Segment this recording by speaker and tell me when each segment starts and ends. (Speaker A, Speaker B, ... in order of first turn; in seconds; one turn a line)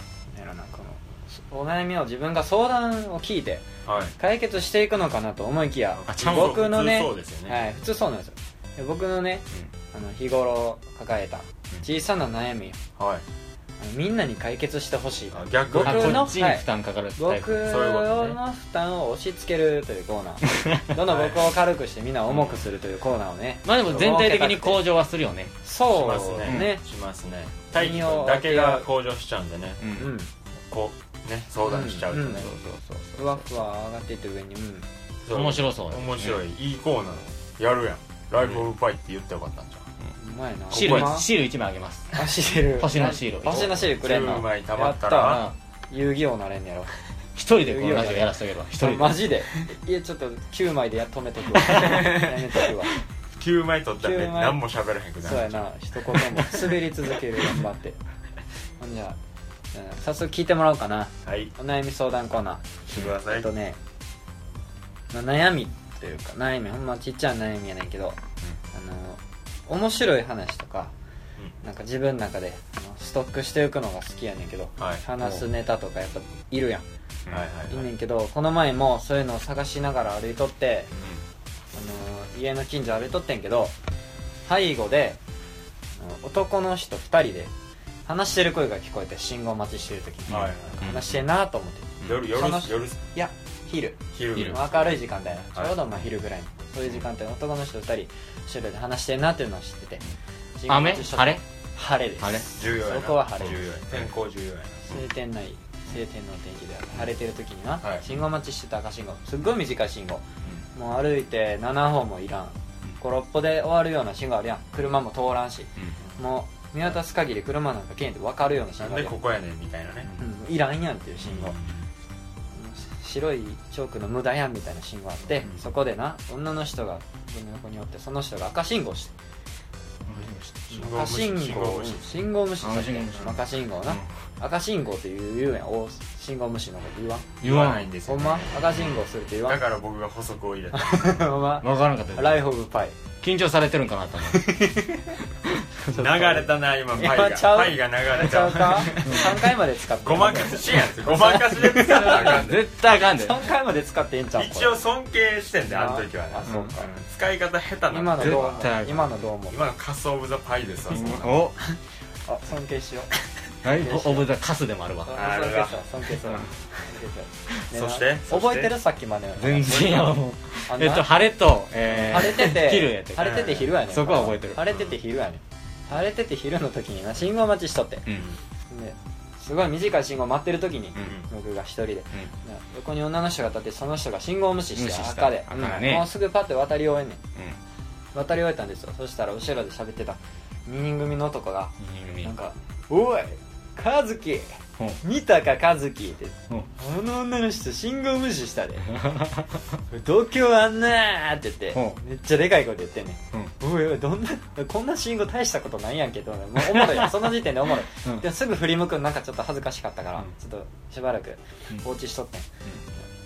Speaker A: 0.3-12.8
Speaker B: 3.9-4.2
Speaker B: 6.0-7.6
Speaker C: 6.1-6.6
Speaker B: 13.0-13.2
Speaker A: 13.8-16.6
Speaker B: 15.3-16.4
Speaker C: 15.8-17.6
Speaker A: 17.2-24.8
Speaker B: 17.6-18.4
Speaker B: 21.1-21.5
Speaker B: 22.3-22.7
Speaker C: 23.6-25.5
Speaker A: 25.6-26.8
Speaker B: 25.9-30.0
Speaker C: 26.5-26.7
Speaker A: 27.7-28.9
Speaker C: 29.8-30.1
Speaker A: 30.0-30.3
Speaker B: 30.7-32.5
Speaker A: 31.7-32.5
Speaker C: 32.2-33.6
Speaker A: 33.2-34.9
Speaker B: 35.3-39.9
Speaker C: 35.3-36.4
Speaker A: 40.2-41.3
Speaker C: 40.7-42.2
Speaker B: 40.7-41.2
Speaker A: 42.1-46.9
Speaker C: 42.7-43.8
Speaker B: 43.5-45.5
Speaker C: 45.2-45.5
Speaker C: 47.4-49.2
Speaker A: 47.6-52.9
Speaker B: 51.8-52.3
Speaker B: 53.4-55.7
Speaker A: 54.0-54.6
Speaker A: 55.2-58.0
Speaker A: 58.8-59.2
Speaker A: 59.7-63.8
Speaker B: 61.2-61.5
Speaker B: 62.9-63.5
Speaker A: 65.1-68.2
Speaker A: 68.7-70.9
Speaker A: 71.6-76.9
Speaker B: 74.8-75.0
Speaker B: 77.3-77.9
Speaker A: 77.7-80.9
Speaker A: 81.7-83.8
Speaker A: 84.5-85.2
Speaker A: 86.0-87.5
Speaker A: 88.1-100.0
Speaker C: 90.3-91.2
Speaker B: 90.3-90.9
Speaker B: 92.0-93.0
Speaker B: 94.1-95.0
Speaker A: 100.6-103.7
Speaker C: 100.7-101.4
Speaker C: 102.2-102.5
Speaker B: 102.6-105.0
Speaker A: 104.9-119.2
Speaker B: 118.8-120.1
Speaker A: 120.2-121.5
Speaker B: 121.2-121.9
Speaker A: 122.5-129.1
Speaker C: 130.1-130.8
Speaker A: 130.7-137.3
Speaker B: 130.7-132.3
Speaker C: 132.6-134.1
Speaker B: 137.4-138.9
Speaker C: 137.4-137.9
Speaker A: 138.1-139.6
Speaker B: 139.5-141.3
Speaker A: 140.7-143.0
Speaker C: 141.6-142.5
Speaker C: 143.2-144.6
Speaker A: 144.3-145.2
Speaker B: 145.9-149.5
Speaker A: 145.9-154.8
Speaker C: 149.0-149.4
Speaker B: 150.0-152.7
Speaker C: 151.8-153.4
Speaker B: 154.4-161.8
Speaker A: 155.7-156.9
Speaker C: 156.5-156.8
Speaker A: 157.9-159.6
Speaker C: 158.2-159.1
Speaker C: 160.9-161.6
Speaker A: 162.3-163.1
Speaker C: 163.6-165.2
Speaker A: 163.7-164.3
Speaker A: 165.1-171.1
Speaker B: 165.2-165.8
Speaker B: 167.7-168.8
Speaker C: 169.4-174.7
Speaker A: 171.8-178.1
Speaker B: 173.2-173.7
Speaker B: 174.7-174.9
Speaker B: 178.1-178.4
Speaker A: 178.7-187.2
Speaker B: 181.0-181.3
Speaker C: 184.8-186.1
Speaker A: 188.1-198.9
Speaker C: 191.8-192.3
Speaker C: 199.0-199.5
Speaker A: 199.9-212.5
Speaker C: 201.7-202.0
Speaker C: 206.6-207.1